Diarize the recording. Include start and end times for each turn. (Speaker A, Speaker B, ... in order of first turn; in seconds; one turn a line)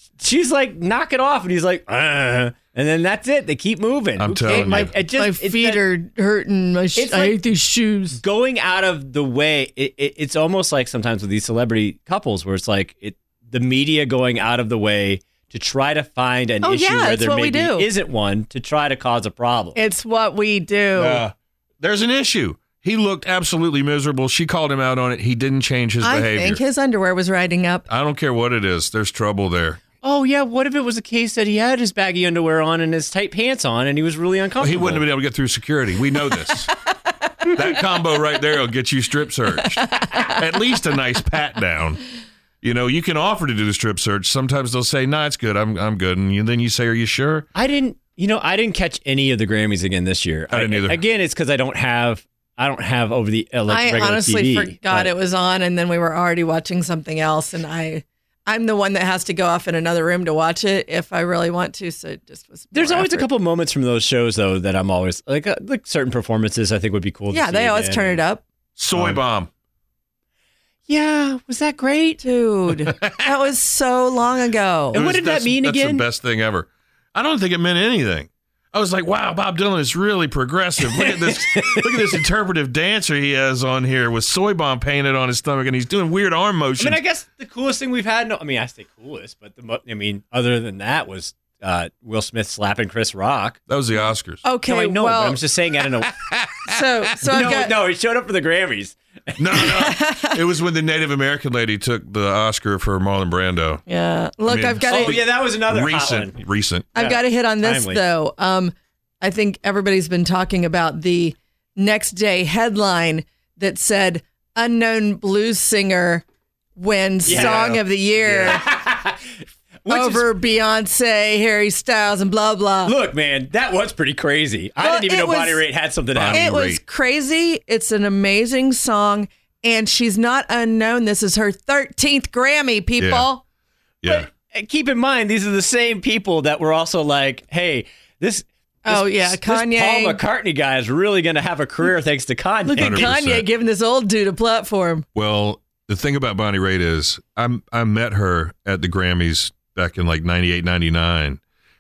Speaker A: 0.2-5.8
Speaker B: 4.2-4.9
Speaker C: 4.5-8.2
Speaker A: 7.0-7.4
Speaker A: 8.1-19.8
Speaker C: 16.6-17.9
Speaker C: 19.8-21.2
Speaker B: 20.9-26.6
Speaker C: 26.0-27.9
Speaker B: 27.9-29.8
Speaker A: 30.0-35.0
Speaker B: 34.6-36.7
Speaker B: 37.5-42.0
Speaker B: 42.6-47.5
Speaker A: 47.5-55.1
Speaker B: 50.5-51.0
Speaker C: 53.7-63.3
Speaker A: 62.7-68.2
Speaker C: 67.3-68.4
Speaker B: 68.8-69.5
Speaker A: 68.9-69.2
Speaker A: 70.9-72.2
Speaker C: 72.2-75.0
Speaker B: 72.9-73.3
Speaker A: 74.9-76.0
Speaker B: 74.9-87.0
Speaker A: 80.8-82.2
Speaker A: 86.8-93.6
Speaker B: 93.7-94.4
Speaker C: 94.4-95.4
Speaker A: 94.7-96.1
Speaker B: 96.0-96.9
Speaker C: 96.7-97.8
Speaker A: 97.2-99.7
Speaker B: 99.4-103.8
Speaker C: 99.6-100.4
Speaker C: 103.9-105.3
Speaker B: 104.5-106.9
Speaker A: 104.8-106.4
Speaker A: 107.0-108.0
Speaker C: 107.0-116.2
Speaker C: 116.8-118.6
Speaker A: 117.2-120.3
Speaker B: 117.3-117.7
Speaker C: 119.9-123.0
Speaker A: 122.8-126.5
Speaker C: 124.8-125.6
Speaker B: 126.2-126.8
Speaker C: 126.3-133.4
Speaker B: 133.0-133.3
Speaker B: 134.0-134.3
Speaker A: 134.1-143.1
Speaker C: 138.9-140.2
Speaker C: 142.7-145.1
Speaker B: 142.8-143.5
Speaker B: 145.2-151.4